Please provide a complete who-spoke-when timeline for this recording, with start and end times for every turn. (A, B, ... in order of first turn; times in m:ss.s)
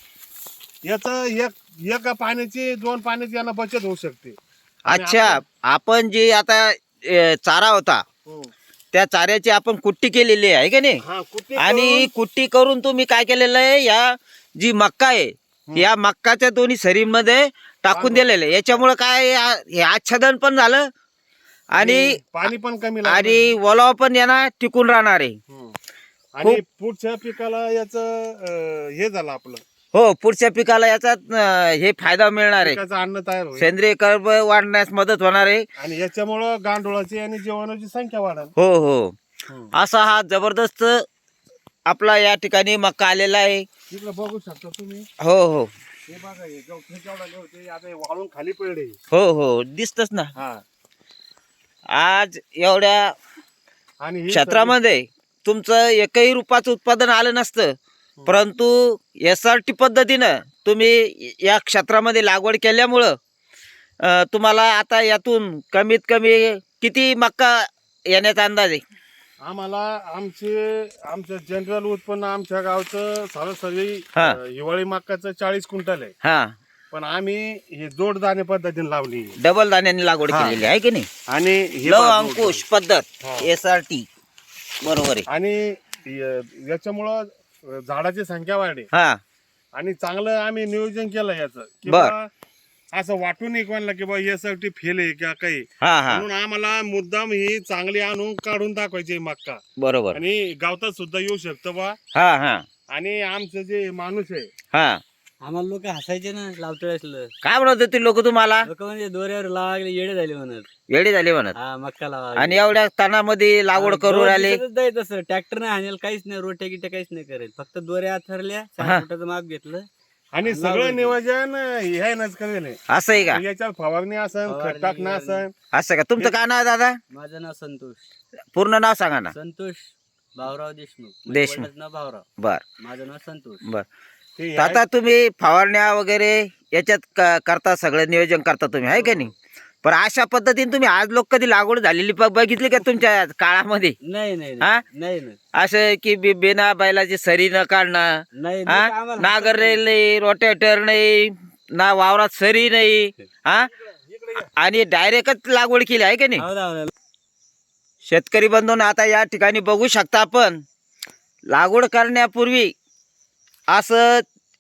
0:00.8-0:04.4 A
0:04.9-0:08.0 B
0:04.9-0:05.4 A
0:08.2-0:08.5 A
0:08.9-0:11.0 B
0:11.0-0:12.1 A
0:11.6-0:20.9 B
0:17.9-0:18.8 A
0:21.7-0:22.5 B
0:21.8-0:23.5 A
0:23.0-0:25.4 B
0:25.5-0:25.7 A
0:26.4-0:29.6 A
0:29.9-0:32.8 B
0:32.6-0:33.7 A
0:33.6-0:35.6 B
0:35.8-0:38.5 A
0:38.6-0:39.2 B
0:39.7-0:41.0 B
0:41.9-0:43.7 B
0:43.9-0:45.1 A
0:45.2-0:45.7 B
0:46.1-0:49.0 A
0:49.1-0:50.3 B
0:50.4-0:50.6 A
0:51.9-0:53.1 B
0:54.0-0:54.7 A
0:54.3-0:57.7 B
0:58.3-1:03.2 B
1:04.0-1:08.8 B
1:09.4-1:16.1 A
1:16.2-1:16.5 B
1:16.9-1:19.4 A
1:19.4-1:21.1 B
1:20.3-1:20.6 A
1:21.3-1:22.6 A
1:21.8-1:24.0 B
1:23.2-1:23.5 A
1:24.8-1:25.2 B
1:25.3-1:28.9 A
1:28.9-1:29.2 B
1:29.8-1:32.3 A
1:31.9-1:32.1 B
1:32.9-1:42.0 A
1:35.8-1:36.2 B
1:39.8-1:40.2 B
1:42.1-1:42.6 B
1:42.9-1:44.5 A
1:44.7-1:45.0 B
1:45.4-1:47.3 C
1:47.4-1:48.7 B
1:48.6-1:50.7 C
1:50.9-1:51.5 B
1:51.5-1:52.6 C
1:52.4-1:54.6 B
1:53.7-1:59.9 C
2:00.3-2:05.5 A
2:00.4-2:01.2 C
2:02.9-2:03.4 B
2:04.5-2:05.4 C
2:05.7-2:07.0 B
2:07.1-2:08.1 C
2:08.5-2:09.3 B
2:09.3-2:12.2 C
2:11.3-2:11.7 B
2:12.8-2:13.6 C
2:14.4-2:14.8 A
2:14.6-2:19.3 B
2:18.9-2:19.3 C
2:19.8-2:24.0 B
2:24.0-2:25.4 C
2:25.5-2:28.1 B
2:28.3-2:29.8 C
2:28.7-2:33.7 B
2:33.8-2:34.5 A
2:34.4-2:36.4 B
2:36.4-2:36.9 C
2:38.0-2:40.6 B
2:41.5-2:42.7 B
2:43.7-2:44.2 B